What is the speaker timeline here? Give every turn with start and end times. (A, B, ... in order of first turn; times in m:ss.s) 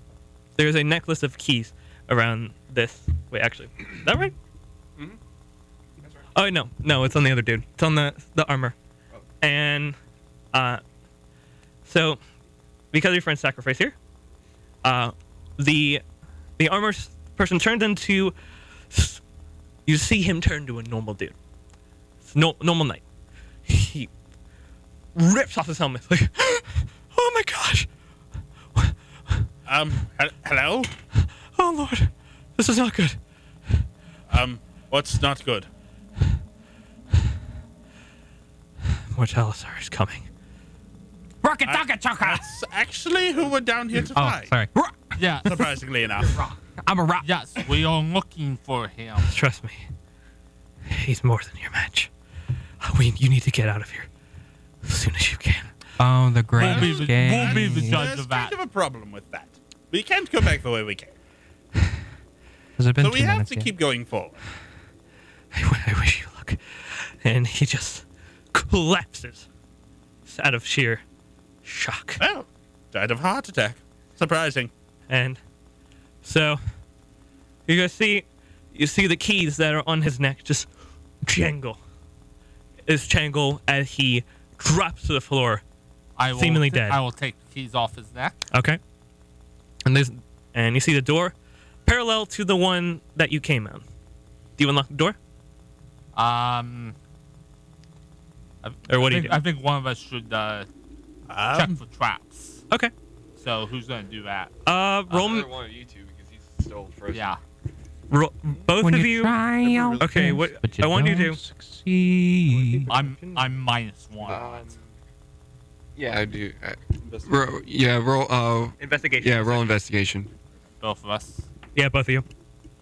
0:00.6-0:04.3 A
0:06.3-0:08.7 A
0:09.4-0:10.0 A
0:10.5-0:10.8 A
0:11.8-0:12.2 A
0:12.9-0:13.9 A
0:14.8-0:16.0 A
0:16.6-0:18.3 A
0:18.9-0:19.2 A
0:19.8-0:21.3 A
0:22.2-0:23.0 A
0:23.7-0:24.1 A
0:25.1-0:27.9 A
0:29.7-0:30.9 B
0:31.6-0:33.2 A
0:34.3-0:35.7 B
0:39.1-0:40.3 A
0:41.4-0:42.4 C
0:41.6-0:44.5 B
0:44.0-0:45.2 C
0:45.2-0:45.5 D
0:45.4-0:46.5 B
0:46.3-0:47.3 C
0:47.2-0:49.3 D
0:49.2-0:49.9 A
0:50.8-0:52.1 A
0:52.8-0:54.1 A
0:54.8-0:55.7 A
0:56.0-0:58.1 C
0:56.6-0:58.6 D
0:56.6-1:01.1 B
1:02.8-1:03.7 C
1:03.0-1:04.4 B
1:05.5-1:09.5 A
1:10.2-1:11.0 A
1:11.6-1:12.2 A
1:12.2-1:14.7 B
1:15.1-1:15.4 A
1:16.2-1:16.6 A
1:17.7-1:20.7 A
1:21.2-1:21.8 A
1:22.8-1:25.6 A
1:26.2-1:28.4 D
1:26.3-1:27.0 A
1:28.5-1:28.8 A
1:29.8-1:31.3 A
1:31.8-1:33.8 A
1:34.6-1:35.2 A
1:36.1-1:36.9 D
1:38.6-1:40.7 D
1:38.9-1:39.4 A
1:41.3-1:41.8 B
1:41.5-1:42.6 D
1:43.4-1:44.5 D
1:44.6-1:45.5 A
1:45.1-1:47.4 E
1:47.1-1:47.4 D
1:48.1-1:49.4 A
1:48.8-1:52.9 C
1:49.6-1:50.5 B
1:50.0-1:51.4 A
1:52.5-1:53.5 A
1:52.9-1:54.7 D
1:54.2-1:54.8 E
1:56.0-2:00.3 E
1:57.0-1:57.6 B
1:58.8-1:59.8 A
2:00.8-2:01.5 D
2:01.7-2:02.2 A